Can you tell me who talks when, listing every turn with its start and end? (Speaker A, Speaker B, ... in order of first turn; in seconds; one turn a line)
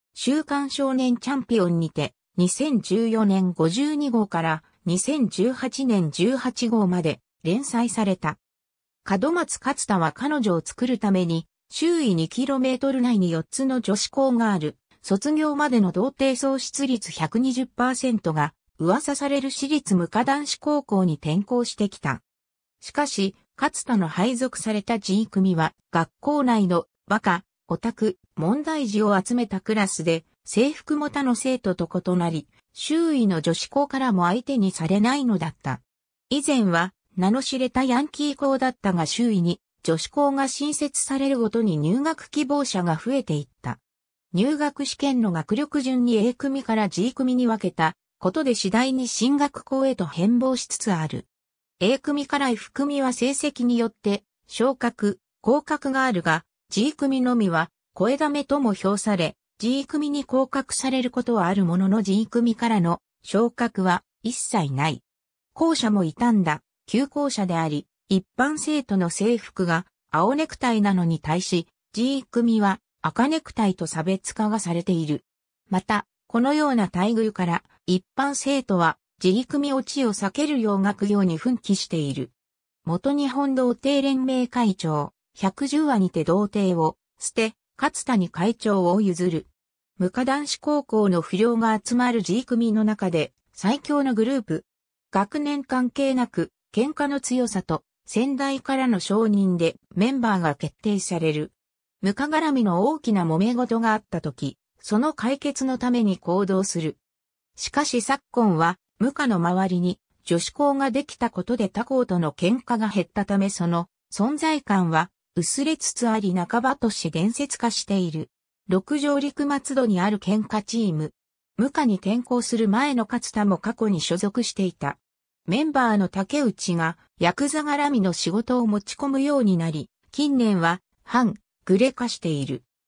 Speaker A: 0.1-8.4
Speaker A: 9.0-22.2
Speaker A: 22.8-43.8
Speaker A: 44.3-51.3
Speaker A: 51.8-65.0
Speaker A: 65.5-82.3
Speaker A: 82.8-107.0
Speaker A: 107.6-132.7